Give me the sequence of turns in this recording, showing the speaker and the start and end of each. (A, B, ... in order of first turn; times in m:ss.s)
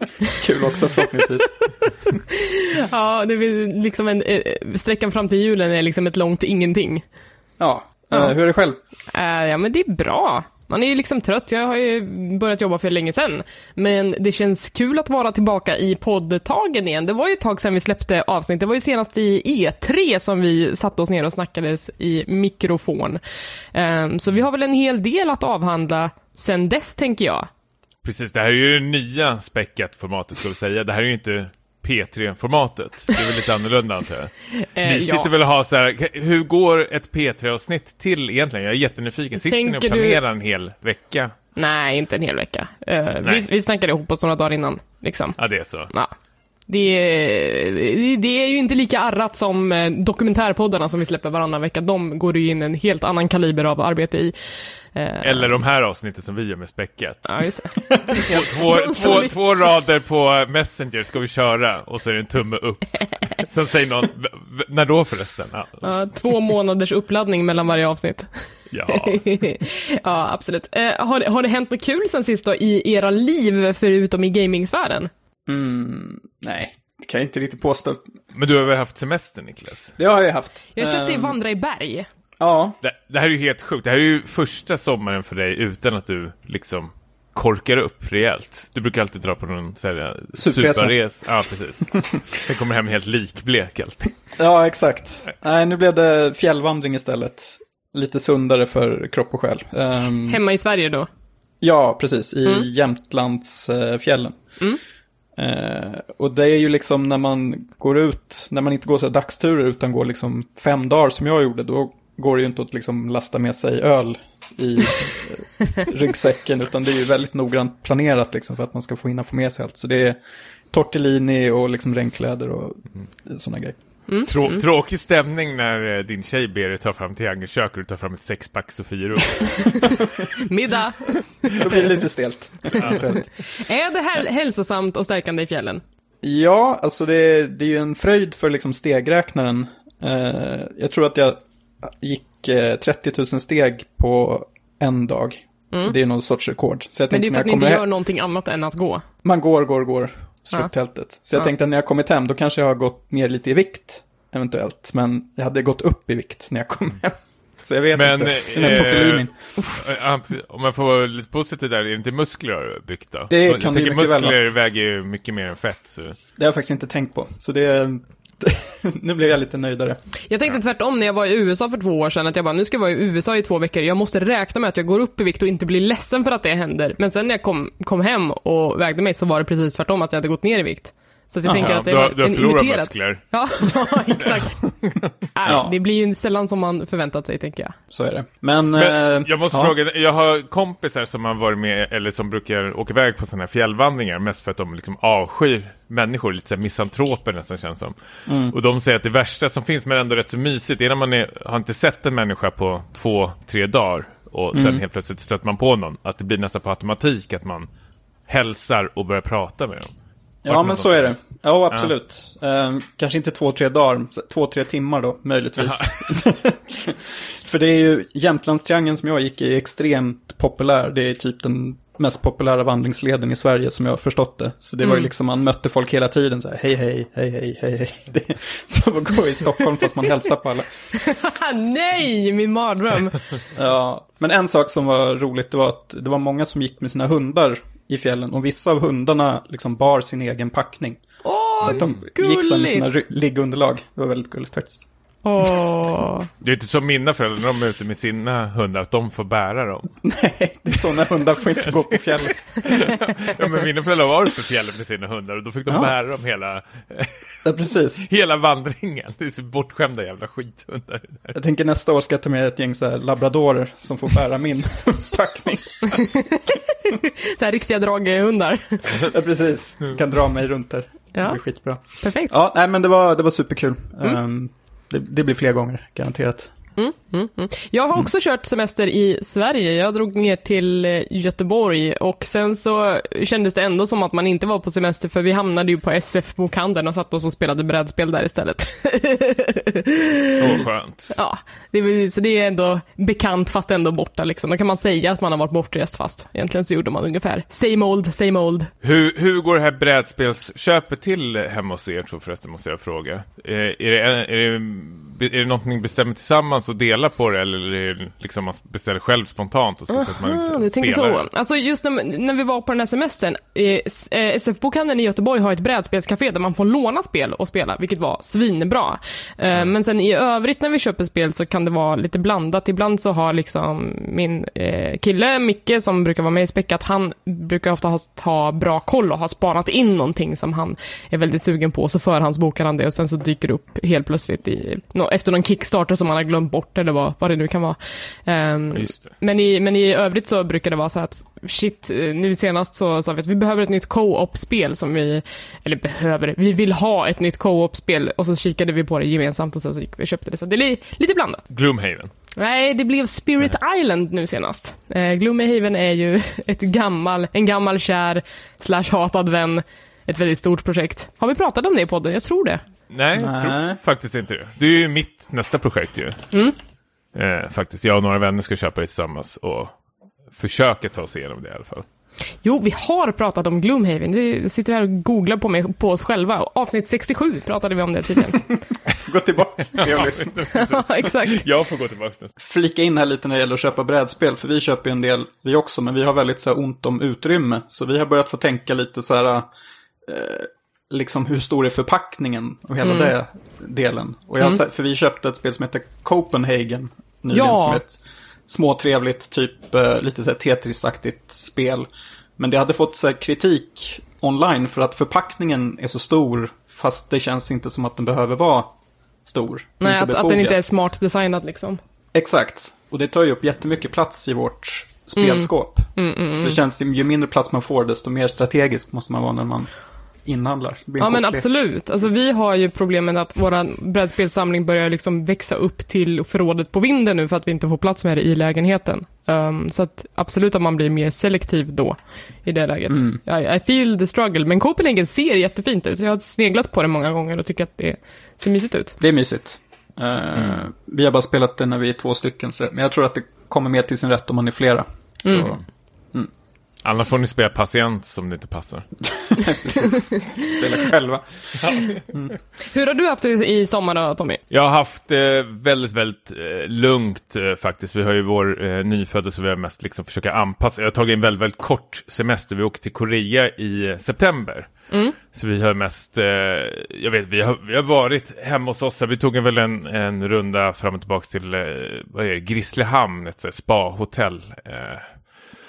0:00.2-0:01.7 A
0:02.3-0:07.0 B
0:07.6-0:08.8 A
0:09.1-0:23.2 B
0:23.7-0:27.5 B
0:28.0-0:41.3 C
0:34.6-0:35.3 B
0:39.4-0:40.2 B
0:41.6-0:45.4 B
0:45.4-0:45.9 C
0:46.7-0:55.5 B
0:55.2-0:57.3 C
0:57.3-0:59.3 B
0:58.2-1:06.0 C
1:05.8-1:15.1 B
1:08.7-1:09.2 C
1:15.5-1:18.0 A
1:18.3-1:19.9 C
1:20.0-1:21.4 A
1:20.7-1:22.1 B
1:22.4-1:22.8 A
1:22.8-1:34.1 C
1:30.4-1:30.9 A
1:34.4-1:40.4 A
1:40.3-1:41.1 B
1:41.6-1:44.4 A
1:45.4-2:00.2 A
2:00.7-2:03.8 A
2:04.1-2:04.6 B
2:04.2-2:10.1 C
2:09.6-2:09.8 B
2:10.3-2:11.9 B
2:11.6-2:13.3 A
2:13.1-2:15.8 B
2:16.2-2:27.8 A
2:27.1-2:29.0 B
2:29.2-2:39.3 A
2:37.9-2:46.2 C
2:43.3-2:44.4 A
2:46.4-2:50.0 A
2:50.3-3:04.8 B
3:01.4-3:01.8 A
3:01.5-3:03.2 C
3:05.3-3:07.8 B
3:05.4-3:05.7 A
3:07.9-3:09.7 A
3:08.7-3:27.7 C
3:18.3-3:18.5 A
3:24.5-3:24.8 A
3:28.3-3:29.9 C
3:30.4-3:50.9 A
3:30.4-3:31.1 C
3:35.6-3:36.2 C
3:44.8-3:45.1 B
3:50.9-3:53.3 B
3:53.5-4:01.0 A
4:01.2-4:02.8 B
4:01.6-4:04.8 A
4:05.2-4:06.3 B
4:06.4-4:10.0 C
4:10.0-4:12.5 A
4:11.6-4:17.3 C
4:17.4-4:18.0 A
4:18.0-4:21.3 C
4:21.3-4:26.0 A
4:25.9-4:29.0 B
4:29.0-4:36.5 A
4:31.1-4:31.4 B
4:32.0-4:32.4 B
4:36.8-4:58.7 B
4:50.4-4:51.1 C
4:58.8-5:11.2 C
5:09.9-5:51.4 B
5:38.7-5:39.1 C
5:51.5-5:52.1 C
5:52.4-6:02.6 B
6:02.9-6:06.2 C
6:03.2-6:03.8 A
6:07.1-6:09.7 C
6:10.4-6:11.8 C
6:12.4-6:18.5 B
6:19.0-6:20.3 A
6:19.7-6:22.3 C
6:20.5-6:21.4 B
6:22.4-6:29.5 A
6:30.0-6:41.9 A
6:32.8-6:33.1 B
6:37.3-6:37.8 B
6:42.4-6:48.7 A
6:49.2-6:50.6 A
6:49.8-6:51.8 B
6:52.1-6:59.7 A
6:55.2-6:56.6 B
7:00.2-7:01.5 A
7:01.0-7:18.9 B
7:12.9-7:13.2 A
7:19.0-7:25.6 A
7:25.2-7:25.5 B
7:25.3-7:25.5 C
7:26.8-7:28.9 C
7:29.3-7:32.3 A
7:32.6-7:34.4 B
7:34.5-7:44.7 C
7:44.9-7:45.2 B
7:45.2-7:55.1 C